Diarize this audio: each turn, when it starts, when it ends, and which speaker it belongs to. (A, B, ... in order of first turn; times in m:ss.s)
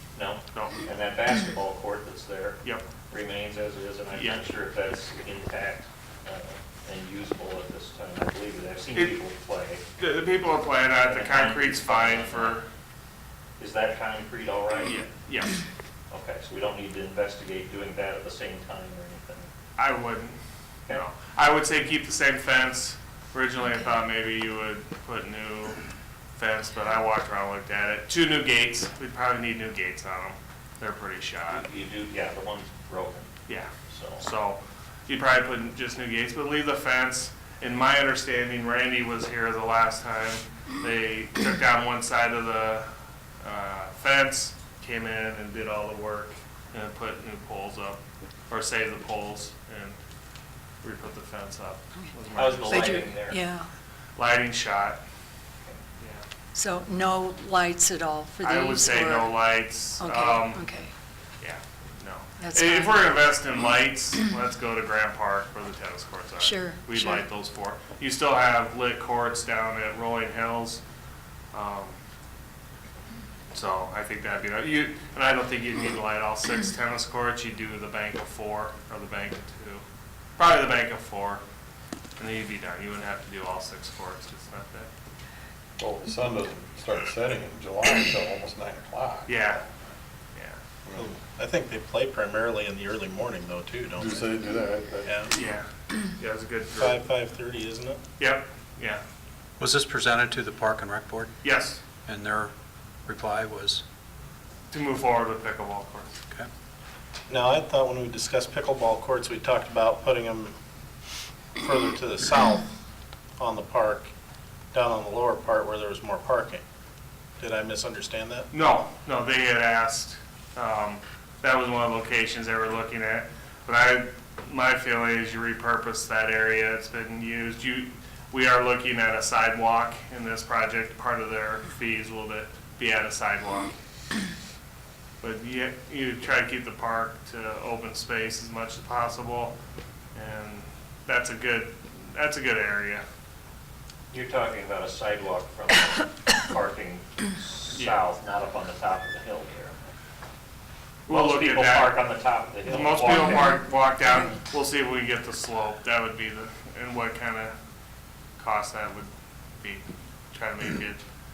0:00.2-0:09.8 A
0:00.5-0:00.8 B
0:04.1-0:04.4 B
0:10.0-0:12.6 B
0:11.0-0:12.6 A
0:13.6-0:15.0 A
0:14.9-0:15.6 B
0:16.1-0:19.5 A
0:19.8-0:20.4 B
0:20.9-0:25.8 B
0:26.4-0:31.6 B
0:31.5-0:33.3 A
0:33.5-0:42.9 B
0:33.9-0:34.2 A
0:43.4-0:50.0 B
0:50.8-0:53.0 B
0:52.4-0:53.4 A
0:52.7-0:53.7 C
0:54.2-0:55.0 B
0:56.0-0:56.2 B
0:56.5-0:59.4 C
0:58.4-1:00.6 B
1:00.0-1:00.9 C
1:01.4-1:10.8 B
1:02.4-1:03.2 C
1:06.4-1:07.2 C
1:11.5-1:12.0 B
1:13.5-1:19.8 B
1:20.4-1:21.4 B
1:22.2-1:24.9 B
1:25.8-1:29.7 D
1:29.3-1:29.6 B
1:31.0-1:34.3 E
1:34.0-1:35.2 D
1:35.3-1:37.0 B
1:36.7-1:38.0 E
1:38.2-1:39.0 B
1:39.6-1:41.3 F
1:41.4-1:41.8 B
1:42.1-1:42.5 F
1:43.1-1:43.8 F
1:44.7-1:46.2 B
1:47.3-1:50.6 E
1:51.6-1:52.7 E
1:53.4-1:54.1 E
1:54.7-1:56.6 E
1:57.4-1:58.5 E
1:58.5-2:13.7 B
2:15.2-2:19.6 B
2:20.2-2:23.0 B
2:24.1-2:29.8 A
2:31.1-2:31.9 B
2:31.1-2:33.6 A
2:32.6-2:37.5 B
2:33.1-2:34.4 C
2:38.4-2:39.1 B
2:39.6-2:41.0 B